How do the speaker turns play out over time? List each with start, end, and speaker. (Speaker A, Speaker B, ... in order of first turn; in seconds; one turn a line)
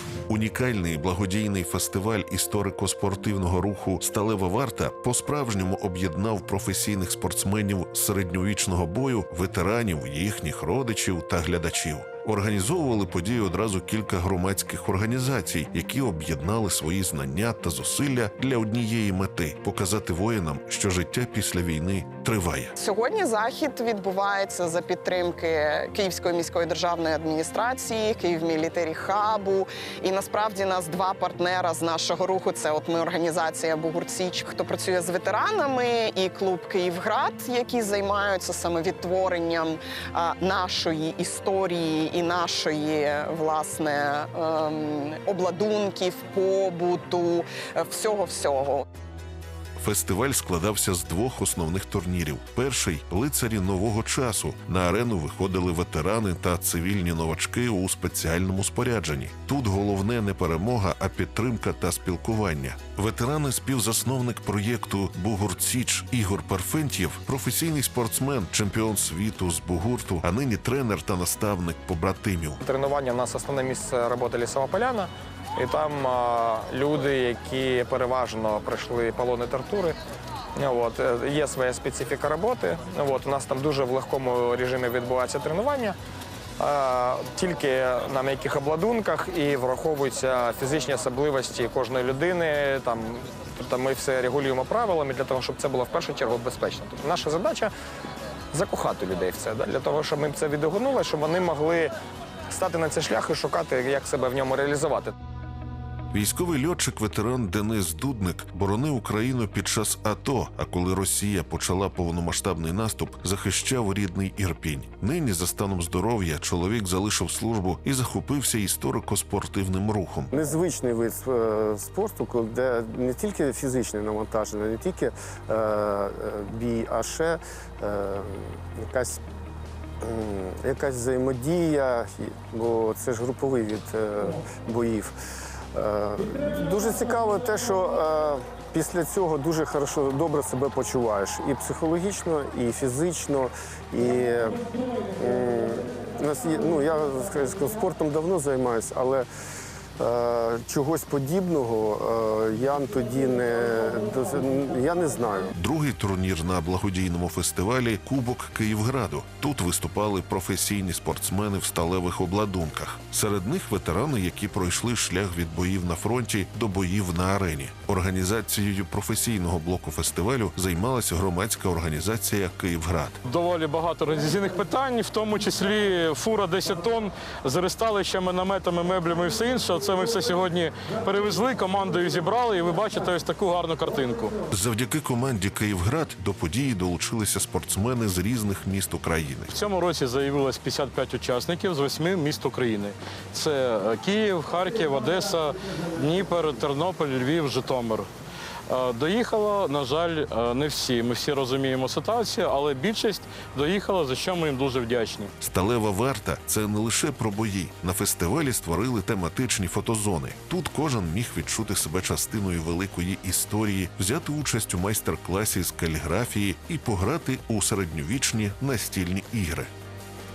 Speaker A: 0.3-22.7
Speaker B: 22.8-48.9
Speaker A: 49.8-72.6
Speaker C: 72.6-80.0
Speaker C: 80.5-86.0
Speaker C: 86.6-97.7
Speaker C: 98.5-101.9
Speaker C: 102.5-105.2
Speaker A: 106.1-120.3
Speaker D: 120.3-129.2
Speaker D: 130.0-135.1
Speaker D: 135.7-144.6
Speaker D: 145.2-149.3
Speaker D: 150.0-155.5
Speaker A: 155.6-173.2
Speaker E: 173.3-184.3
Speaker A: 184.5-189.5
Speaker E: 189.5-198.1
Speaker E: 198.7-205.3
Speaker A: 205.4-219.7